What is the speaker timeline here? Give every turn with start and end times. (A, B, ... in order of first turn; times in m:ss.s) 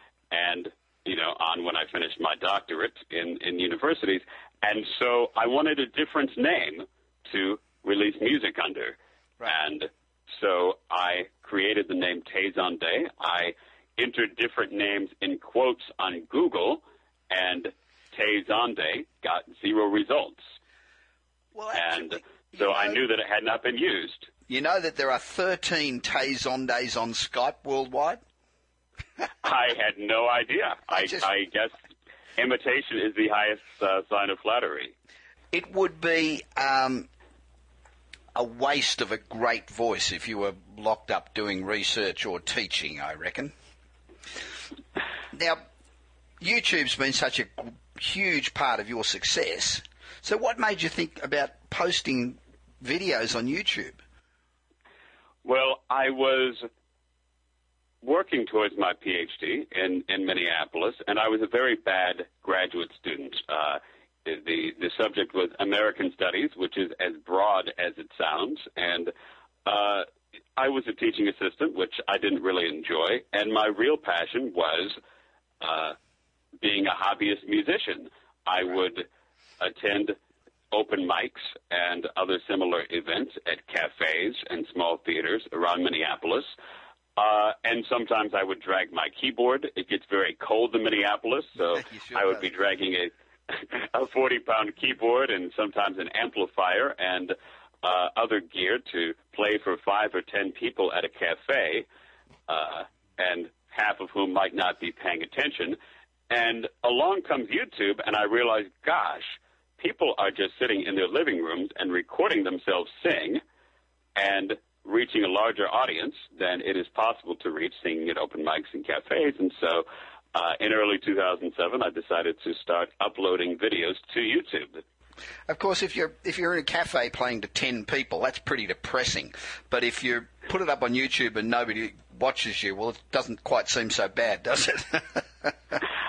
0:00.3-0:20.4 A
0:21.6-0:23.0 B
0:21.7-0:24.3 A
0:24.5-0:28.2 B
0:29.4-0:31.7 A
0:30.9-0:31.3 B
0:32.4-0:34.9 A
0:35.5-0:37.1 B
0:38.4-0:43.5 B
0:45.3-0:45.6 B
0:46.4-0:54.0 B
0:55.4-0:56.7 A
0:58.0-1:09.1 A
1:09.7-1:15.0 A
1:15.6-1:16.0 A
1:16.6-1:19.1 A
1:19.6-1:20.2 A
1:20.7-1:26.5 A
1:27.2-1:41.9 A
1:31.7-1:32.5 B
1:42.5-1:45.8 A
1:46.3-1:53.4 A
1:54.2-2:04.8 A
2:05.5-2:15.8 B